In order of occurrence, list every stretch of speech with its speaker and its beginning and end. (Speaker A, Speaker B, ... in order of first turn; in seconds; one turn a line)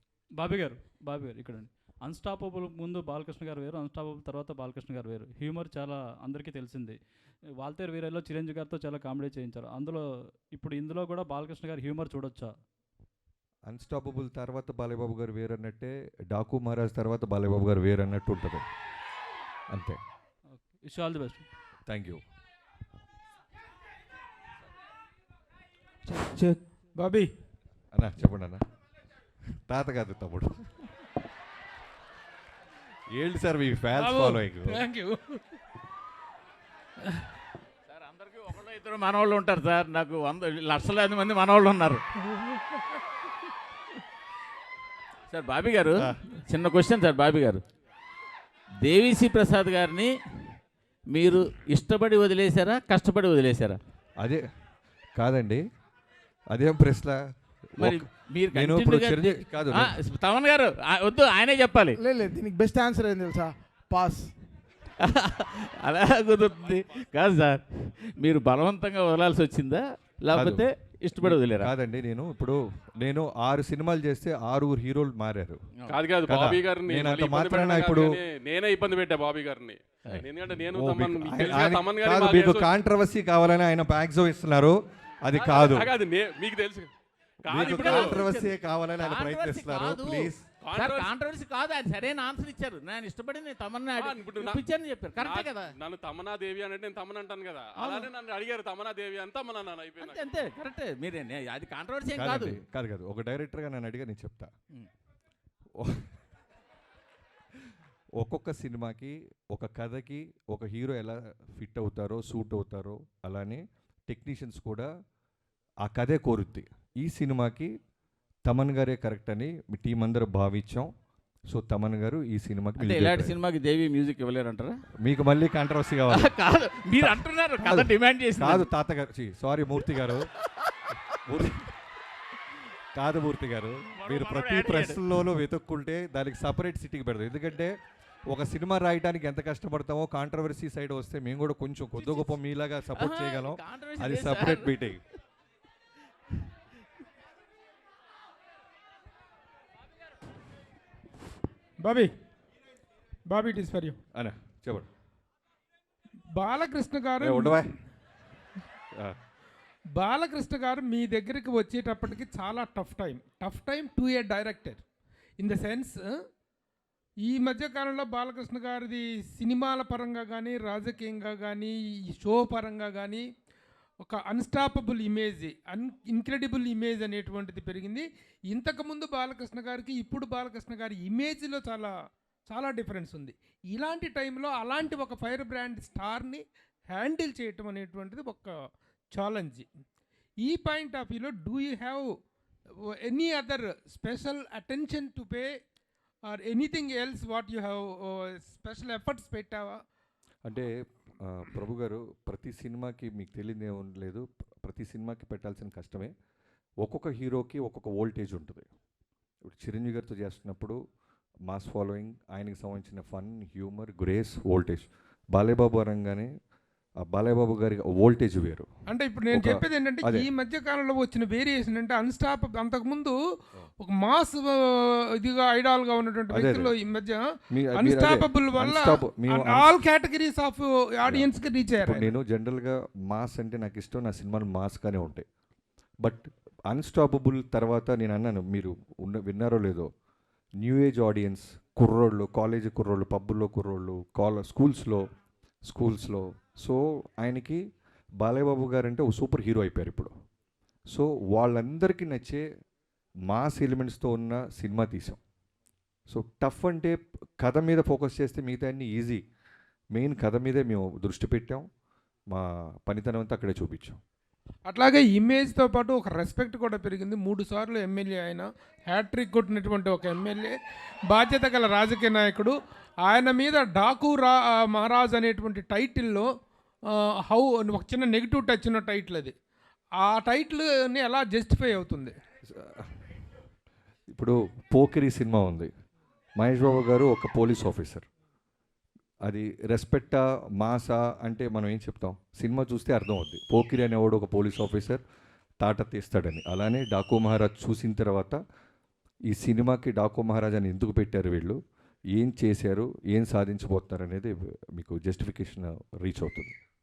Speaker A: 0.4-7.0
Speaker A: 7.6-12.6
Speaker B: 13.7-18.6
Speaker A: 20.5-21.4
Speaker B: 21.9-22.2
Speaker C: 26.1-27.3
Speaker B: 27.9-28.6
Speaker B: 29.7-30.7
Speaker B: 33.1-34.8
Speaker C: 34.0-35.4
Speaker D: 37.9-42.0
Speaker D: 45.3-47.6
Speaker D: 48.8-50.1
Speaker D: 51.1-53.8
Speaker B: 54.2-54.4
Speaker B: 55.2-55.6
Speaker B: 56.5-57.2
Speaker B: 57.8-60.0
Speaker D: 57.8-62.0
Speaker E: 62.0-64.3
Speaker D: 65.0-71.7
Speaker B: 70.3-70.7
Speaker B: 71.2-75.6
Speaker F: 75.9-82.7
Speaker B: 76.2-78.2
Speaker B: 80.1-85.9
Speaker F: 85.3-86.9
Speaker F: 87.4-88.2
Speaker B: 87.5-90.4
Speaker D: 87.5-95.8
Speaker F: 90.6-91.1
Speaker F: 93.9-100.4
Speaker D: 97.8-98.1
Speaker D: 100.0-102.6
Speaker B: 102.1-104.5
Speaker B: 105.8-106.2
Speaker B: 108.2-114.9
Speaker B: 115.8-117.7
Speaker B: 118.4-120.9
Speaker B: 121.5-123.4
Speaker D: 122.8-124.8
Speaker B: 125.0-126.3
Speaker D: 126.1-128.7
Speaker B: 127.0-130.3
Speaker B: 131.2-131.7
Speaker B: 132.9-137.7
Speaker D: 134.0-135.0
Speaker B: 138.3-145.0
Speaker D: 142.0-142.3
Speaker D: 143.0-144.9
Speaker C: 151.8-152.1
Speaker C: 153.3-154.0
Speaker B: 154.1-154.9
Speaker C: 156.3-157.6
Speaker B: 157.2-157.7
Speaker C: 159.9-164.8
Speaker C: 165.4-166.0
Speaker C: 167.2-173.2
Speaker C: 174.0-181.9
Speaker C: 182.5-188.6
Speaker C: 189.1-189.7
Speaker C: 190.4-192.1
Speaker C: 192.9-195.5
Speaker C: 196.3-199.8
Speaker B: 200.4-206.1
Speaker B: 206.8-208.7
Speaker B: 209.4-210.8
Speaker B: 211.5-216.3
Speaker B: 217.0-218.7
Speaker C: 218.9-223.2
Speaker B: 219.3-220.3
Speaker C: 223.8-227.2
Speaker B: 226.3-226.7
Speaker B: 227.5-229.7
Speaker C: 227.8-232.1
Speaker B: 231.8-235.2
Speaker B: 236.0-239.9
Speaker B: 240.6-245.0
Speaker B: 245.7-247.6
Speaker B: 248.2-250.1
Speaker B: 250.9-252.4
Speaker B: 253.3-255.2
Speaker B: 256.1-259.2
Speaker B: 259.9-261.6
Speaker B: 262.3-264.0
Speaker C: 264.7-270.5
Speaker C: 271.1-272.5
Speaker C: 273.0-276.3
Speaker C: 277.3-279.3
Speaker C: 280.0-282.1
Speaker B: 282.5-283.2
Speaker B: 284.1-285.7
Speaker B: 286.4-288.0
Speaker B: 289.2-295.0
Speaker B: 295.6-298.4
Speaker B: 299.3-301.6
Speaker B: 302.1-306.5